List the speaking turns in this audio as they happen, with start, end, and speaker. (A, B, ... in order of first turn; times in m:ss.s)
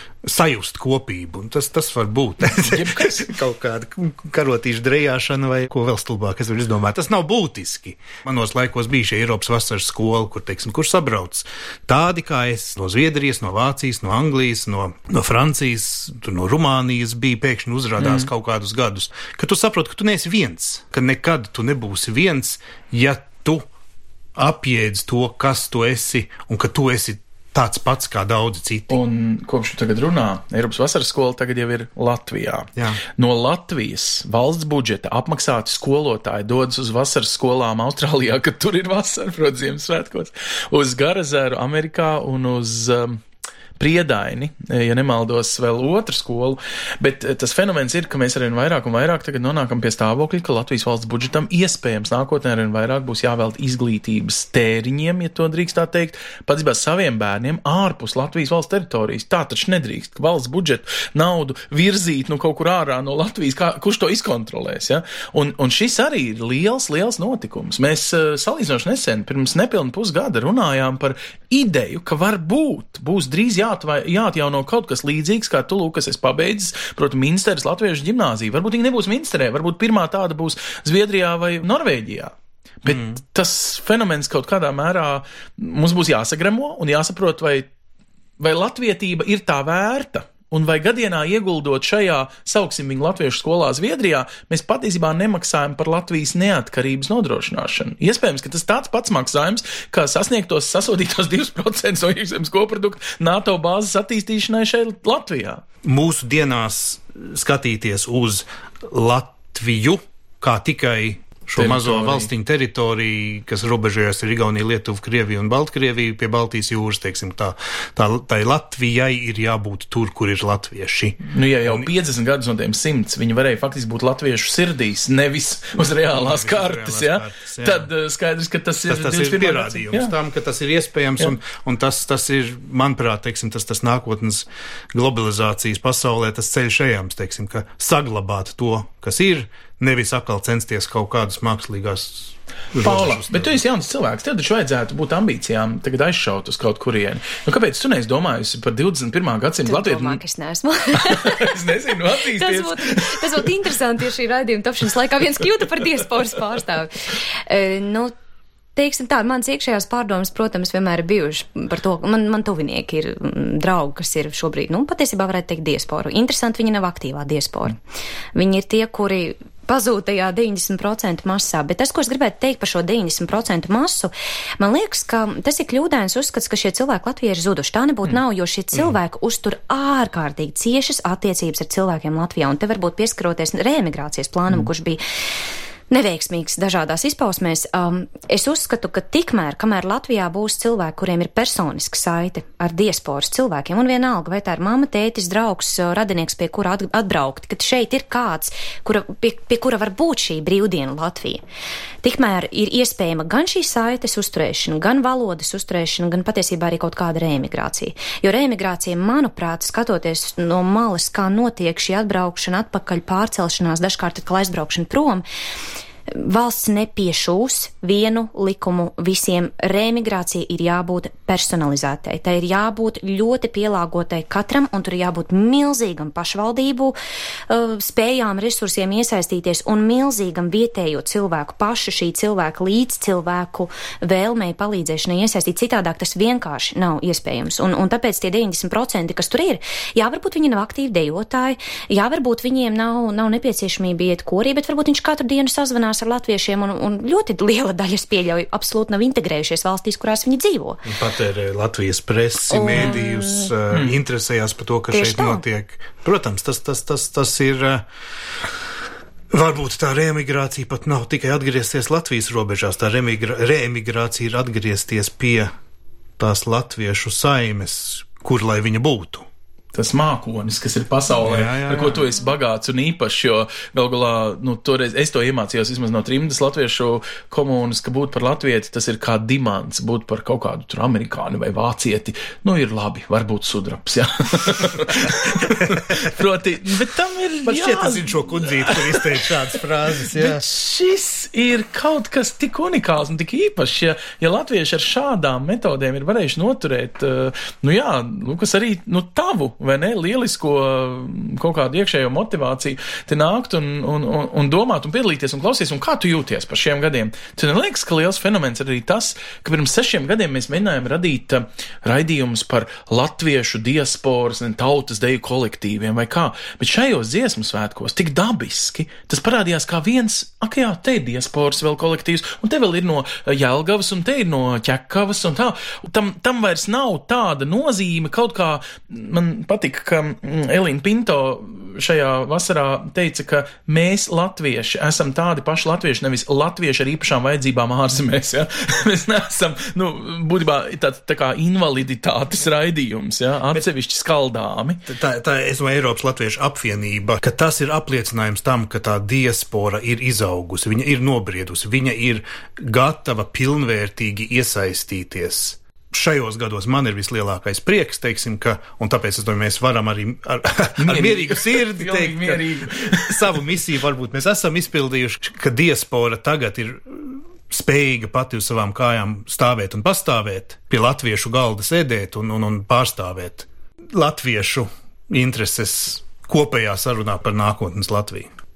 0:00.2-0:23.6 A
0:02.4-0:03.3 B
0:18.0-0:18.3 B
0:24.4-0:29.0 A
0:28.9-0:43.2 B
0:43.8-1:27.7 B
1:22.9-1:23.1 A
1:28.4-1:45.6 B
1:45.8-2:01.9 A
1:51.6-1:52.3 B
2:01.2-2:10.1 B
2:06.1-2:07.9 A
2:08.9-2:23.6 A
2:22.8-2:30.2 B
2:29.6-2:31.5 C
2:30.9-2:33.4 B
2:32.4-2:36.9 C
2:37.5-2:38.1 C
2:38.8-2:47.8 C
2:48.3-3:05.0 C
3:05.9-3:21.4 C
3:22.0-3:35.2 C
3:36.1-3:47.0 C
3:47.5-4:10.8 C
4:10.8-4:17.8 A
4:12.5-4:13.5 C
4:14.9-4:15.4 C
4:19.3-4:25.5 A
4:26.2-4:29.2 A
4:29.7-4:49.4 B
4:31.2-4:32.1 A
4:47.4-4:50.4 A
4:50.1-5:44.8 B
5:44.9-6:18.3 A
6:00.8-6:03.4 B